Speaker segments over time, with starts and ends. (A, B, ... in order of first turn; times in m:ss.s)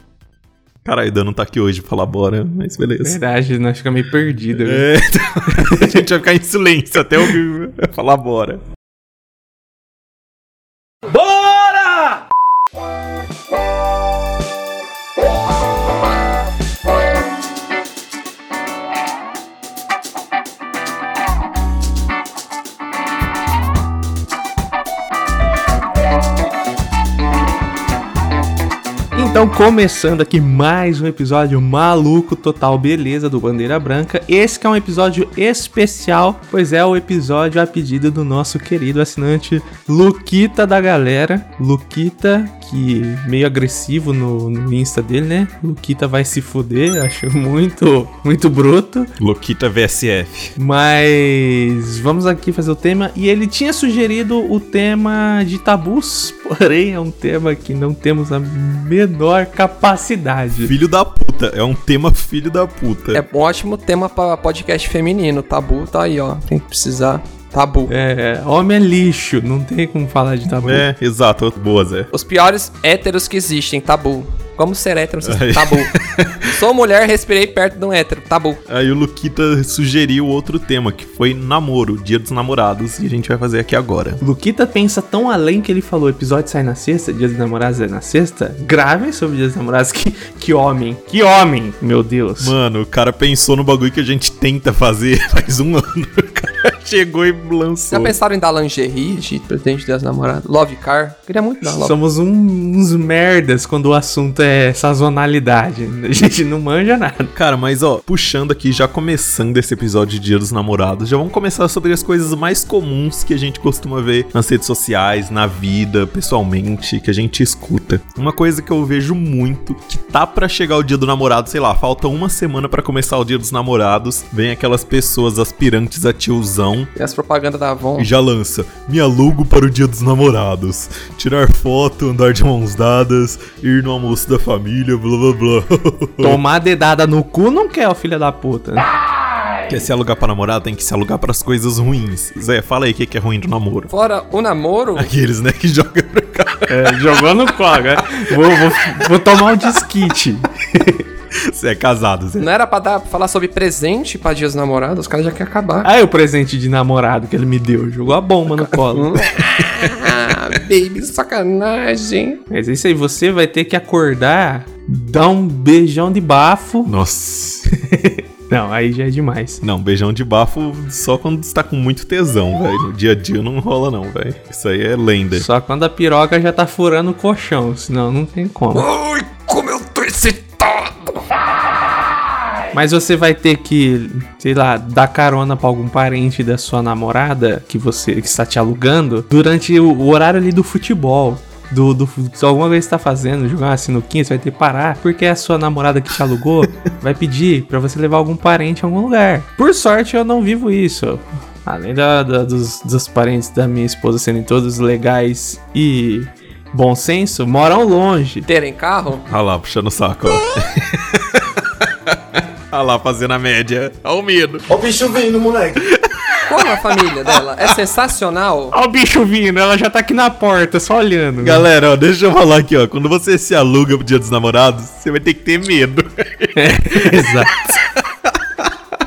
0:00.8-0:03.2 A
0:03.0-0:04.9 B
0:04.5-0:08.6 A
0:11.1-0:12.2 C
0:29.1-0:49.1 B
0:49.2-0:50.6 A
0:50.6-1:00.7 B
1:00.6-1:03.2 A
1:03.1-1:07.9 D
1:07.9-1:10.9 B
1:10.6-1:12.1 A
1:12.1-1:18.6 D
1:15.2-1:16.5 A
1:18.7-1:24.2 A
1:24.2-1:32.6 B
1:32.4-1:38.2 A
1:37.9-1:42.0 D
1:41.8-1:47.3 B
1:47.4-2:06.9 A
2:07.0-2:08.1 D
2:08.0-2:16.4 A
2:16.2-2:18.9 B
2:19.7-2:23.9 A
2:23.9-2:25.1 D
2:25.0-2:27.2 A
2:26.7-2:31.0 B
2:31.5-2:32.5 A
2:32.4-2:35.9 D
2:35.8-2:39.1 B
2:38.6-2:42.4 D
2:42.5-2:47.0 B
2:46.9-2:47.7 A
2:47.8-2:49.6 B
2:49.6-2:55.5 A
2:55.3-2:58.9 B
2:59.0-3:01.0 D
3:02.7-3:28.5 B
3:28.5-3:29.2 D
3:29.3-3:34.7 A
3:34.7-3:35.8 C
3:35.9-3:36.8 A
3:36.5-3:38.7 D
3:38.7-3:41.7 B
3:41.4-3:48.3 A
3:46.6-3:47.6 B